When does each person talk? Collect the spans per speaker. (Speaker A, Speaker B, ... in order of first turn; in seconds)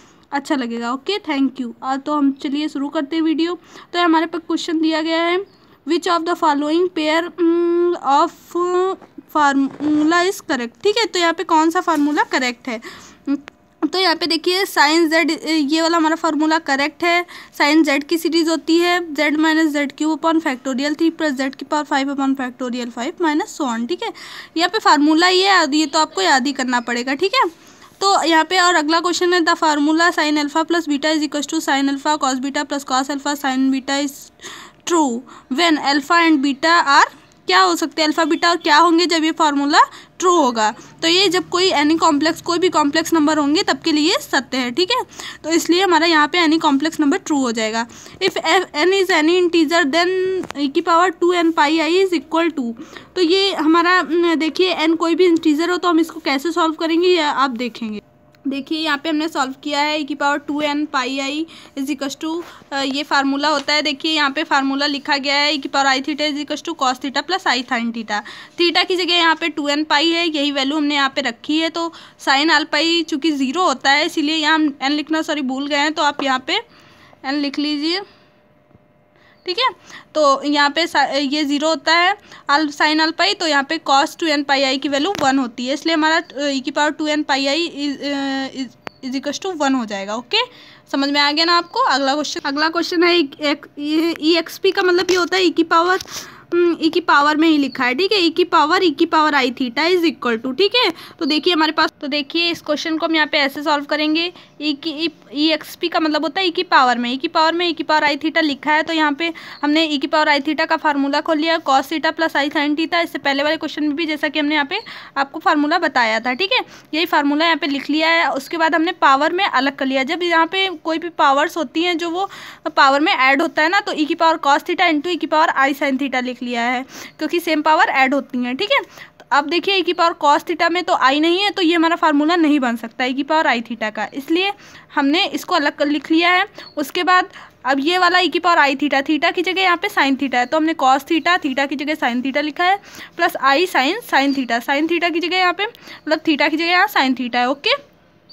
Speaker A: 0.3-27.5, 28.0-76.6, 77.2-78.0, 79.4-147.8